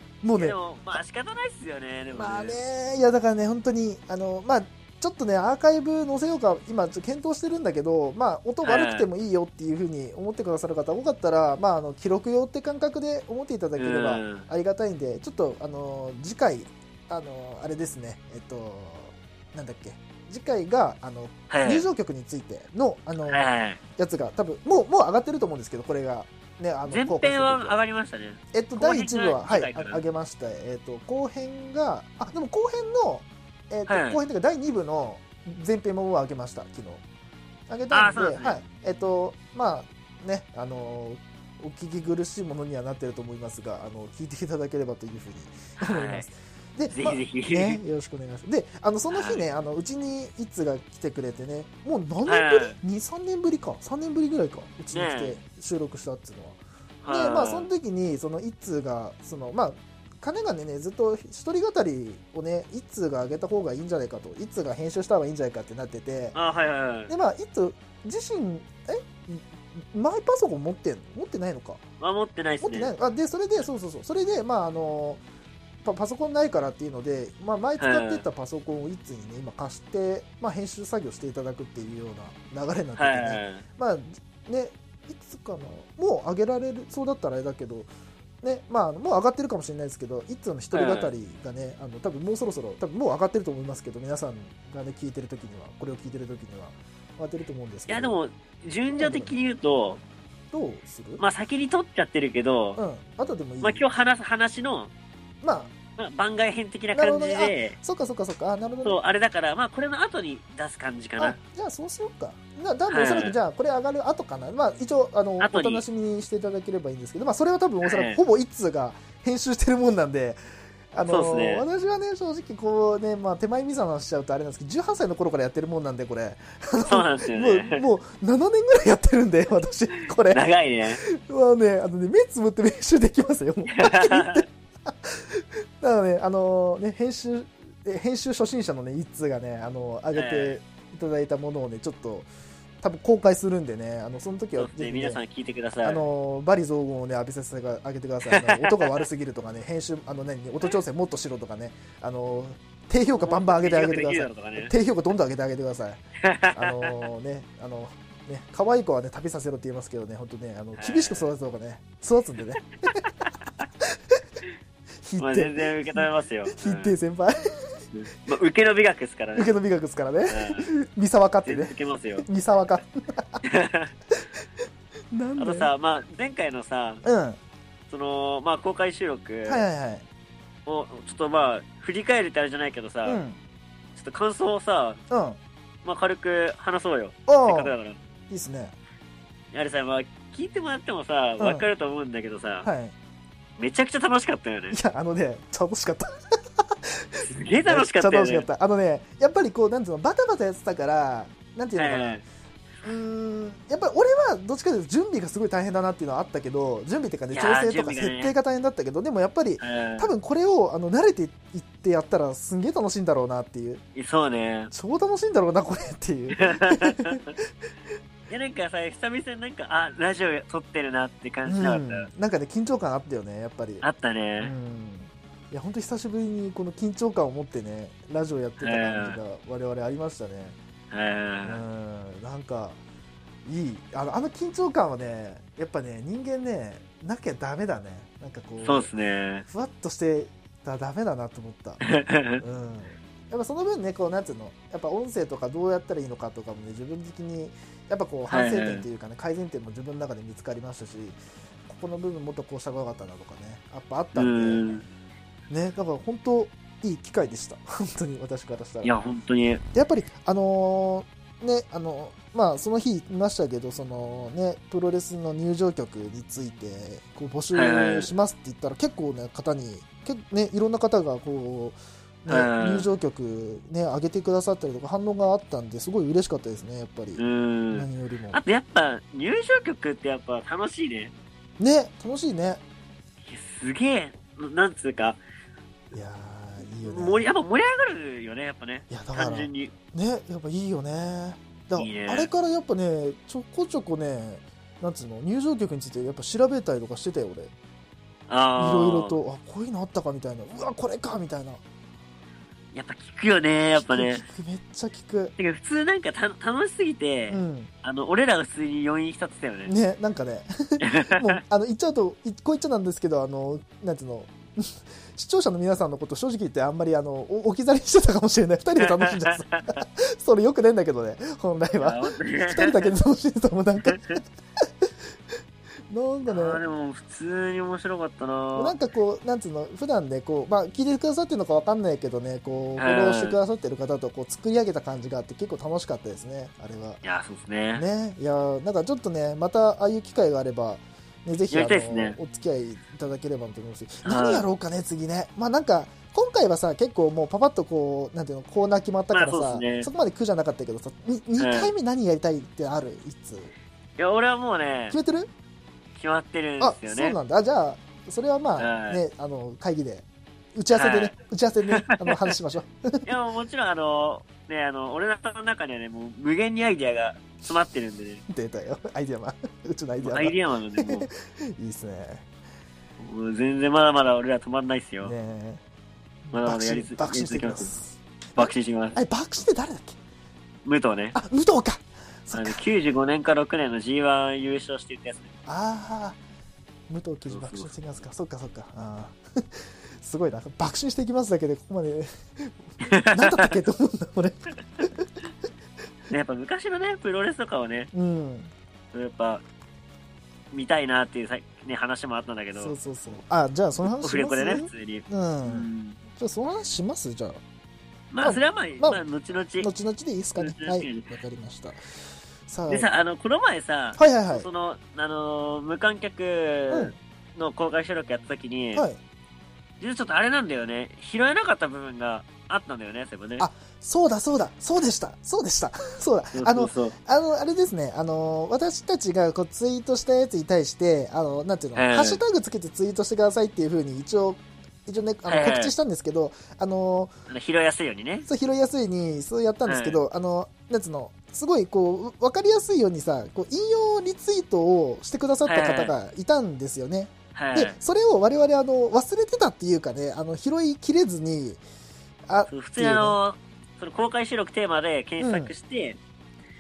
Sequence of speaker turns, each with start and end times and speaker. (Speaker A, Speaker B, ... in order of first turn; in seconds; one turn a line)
Speaker A: 0.2-0.6
Speaker B: 0.3-2.6
Speaker A: 2.1-23.4
Speaker B: 8.6-9.1
Speaker B: 13.8-14.4
Speaker B: 21.5-21.9
Speaker B: 23.3-23.8
Speaker A: 24.0-27.8
Speaker B: 26.9-30.0
Speaker A: 28.5-37.0
Speaker B: 33.9-34.2
Speaker A: 37.7-66.4
Speaker B: 37.9-38.6
Speaker B: 45.8-46.3
Speaker B: 46.9-47.8
Speaker B: 49.1-49.4
Speaker B: 52.2-52.8
Speaker B: 54.9-55.4
Speaker B: 57.0-57.7
Speaker B: 66.3-67.1
Speaker A: 67.1-71.8
Speaker B: 72.0-72.9
Speaker A: 72.6-75.2
Speaker A: 75.8-87.9
Speaker B: 77.8-78.2
Speaker B: 83.0-83.6
Speaker A: 88.4-98.2
Speaker B: 90.7-91.1
Speaker B: 97.9-100.0
Speaker A: 98.9-99.3
Speaker A: 100.5-101.2
Speaker B: 101.2-102.8
Speaker A: 102.8-103.8
Speaker B: 103.6-104.9
Speaker A: 105.4-105.7
Speaker B: 106.0-107.8
Speaker A: 106.9-109.0
Speaker B: 108.8-111.4
Speaker A: 111.2-120.4
Speaker B: 112.9-113.4
Speaker B: 115.4-115.8
Speaker B: 117.8-118.2
Speaker A: 120.9-142.3
Speaker B: 121.0-121.6
Speaker B: 126.9-127.8
Speaker B: 130.3-131.0
Speaker B: 133.7-134.4
Speaker B: 140.1-140.6
Speaker A: 142.8-145.2
Speaker B: 144.6-146.0
Speaker A: 145.8-156.0
Speaker B: 148.3-149.0
Speaker B: 153.1-154.7
Speaker B: 156.2-156.9
Speaker A: 156.5-163.1
Speaker B: 160.8-161.3
Speaker A: 163.8-164.2
Speaker A: 165.0-167.8
Speaker B: 165.2-166.9
Speaker B: 167.9-169.5
Speaker A: 169.3-173.4
Speaker B: 170.3-170.7
Speaker B: 171.4-172.2
Speaker B: 173.4-173.9
Speaker A: 174.1-174.4
Speaker A: 175.1-175.7
Speaker B: 175.4-177.0
Speaker A: 177.0-177.4
Speaker B: 177.9-179.6
Speaker A: 179.4-180.0
Speaker B: 180.7-183.2
Speaker A: 183.0-183.4
Speaker B: 183.9-185.0
Speaker A: 185.1-185.4
Speaker B: 185.8-188.0
Speaker A: 187.3-187.7
Speaker A: 188.3-188.8
Speaker B: 189.5-192.7
Speaker A: 191.4-191.7
Speaker A: 192.6-192.9
Speaker B: 193.6-194.8
Speaker A: 194.7-202.2
Speaker B: 197.3-198.4
Speaker B: 201.8-202.2
Speaker A: 202.8-213.8
Speaker B: 207.3-208.3
Speaker B: 209.6-210.1
Speaker B: 213.9-214.7
Speaker A: 214.7-217.4
Speaker B: 216.4-217.2
Speaker B: 218.3-222.1
Speaker A: 221.4-223.8
Speaker B: 223.8-224.5
Speaker A: 224.4-230.6
Speaker B: 228.6-229.2
Speaker B: 230.9-231.6
Speaker A: 231.4-232.8
Speaker A: 233.4-238.9
Speaker B: 238.6-239.4
Speaker A: 239.5-241.8
Speaker B: 241.8-242.4
Speaker A: 242.4-254.8
Speaker B: 248.3-248.9
Speaker B: 254.1-254.8
Speaker A: 255.5-258.9
Speaker B: 258.8-259.6
Speaker A: 259.7-278.4
Speaker B: 267.5-268.1
Speaker B: 272.3-272.9
Speaker B: 277.2-281.1
Speaker A: 281.6-282.6
Speaker B: 283.2-285.2
Speaker A: 285.9-287.3
Speaker B: 286.8-289.7
Speaker A: 288.9-297.5
Speaker B: 291.8-292.3
Speaker B: 298.3-299.2
Speaker A: 298.6-301.6
Speaker B: 302.7-304.2
Speaker A: 303.8-305.3
Speaker B: 305.4-309.7
Speaker A: 307.3-307.7
Speaker A: 309.6-324.2
Speaker B: 310.8-311.4
Speaker B: 318.8-319.8
Speaker B: 321.8-322.9
Speaker B: 323.9-324.1
Speaker A: 325.9-326.6
Speaker B: 326.3-328.8
Speaker A: 328.5-337.0
Speaker B: 332.8-333.4
Speaker B: 337.0-337.9
Speaker A: 337.7-353.5
Speaker B: 341.5-342.2
Speaker B: 344.0-344.4
Speaker B: 349.1-349.9
Speaker B: 351.4-351.7
Speaker B: 354.0-355.0
Speaker A: 354.9-355.3
Speaker B: 355.9-357.2
Speaker A: 356.6-363.1
Speaker B: 358.6-359.0
Speaker B: 360.7-361.1
Speaker B: 361.7-362.3
Speaker B: 363.1-368.2
Speaker A: 368.3-372.2
Speaker B: 370.0-371.1
Speaker B: 373.0-375.1
Speaker A: 375.0-375.6
Speaker A: 376.2-380.0
Speaker B: 376.3-377.7
Speaker B: 378.4-379.0
Speaker B: 380.6-381.1
Speaker A: 381.1-382.6
Speaker B: 382.3-385.3
Speaker A: 385.5-386.2
Speaker A: 386.9-395.2
Speaker B: 387.3-387.7
Speaker B: 392.9-393.5
Speaker B: 396.1-397.9
Speaker A: 397.9-398.5
Speaker B: 398.9-399.4
Speaker B: 400.5-402.7
Speaker A: 402.5-407.4
Speaker B: 403.8-406.0
Speaker B: 408.1-409.7
Speaker A: 408.2-409.0
Speaker A: 409.6-411.9
Speaker B: 410.4-411.1
Speaker A: 412.5-412.9
Speaker B: 412.7-418.8
Speaker A: 414.0-414.5
Speaker A: 416.7-417.0
Speaker A: 418.7-419.0
Speaker B: 419.8-423.5
Speaker A: 423.4-437.1
Speaker B: 426.3-426.9
Speaker B: 431.8-432.2
Speaker B: 435.2-435.7
Speaker B: 437.3-438.3
Speaker A: 438.2-451.6
Speaker B: 439.6-440.0
Speaker B: 445.5-445.9
Speaker B: 447.4-447.8
Speaker A: 452.3-453.2
Speaker B: 452.5-456.0
Speaker A: 455.2-455.5